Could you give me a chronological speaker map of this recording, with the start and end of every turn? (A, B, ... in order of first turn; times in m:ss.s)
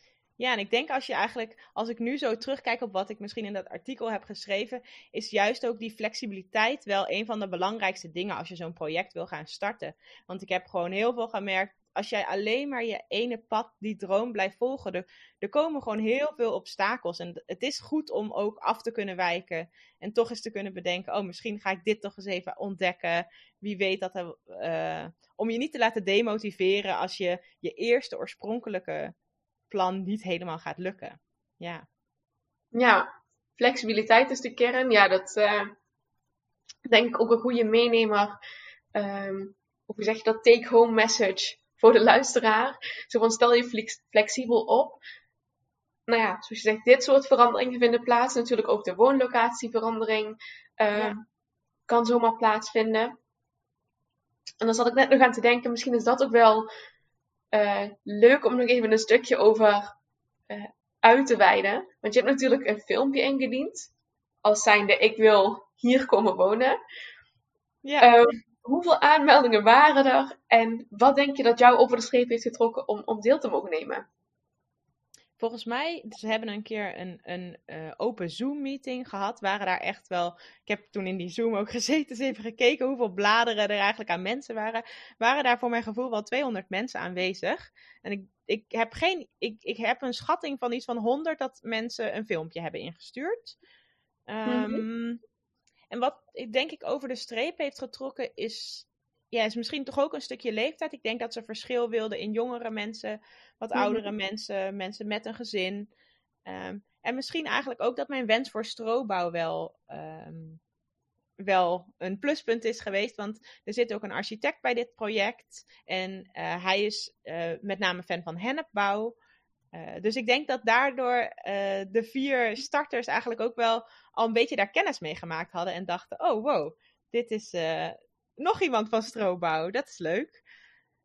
0:00.4-0:29.1 A
0:29.7-0:31.8 A
0:32.7-0:35.7 B
0:36.9-0:38.4 B
0:38.9-0:45.0 B
0:46.1-0:51.2 B
0:51.9-0:53.1 B
0:54.6-0:56.7 B
0:57.5-1:00.0 B
1:00.5-1:03.9 B
1:04.4-1:06.8 B
1:07.8-1:08.1 A
1:08.0-1:14.0 B
1:15.4-1:33.6 A
1:34.3-1:35.2 A
1:34.4-1:34.8 B
1:35.9-1:45.9 A
1:43.7-1:44.0 B
1:46.4-1:50.6 A
1:51.4-1:59.2 A
1:59.7-2:10.4 A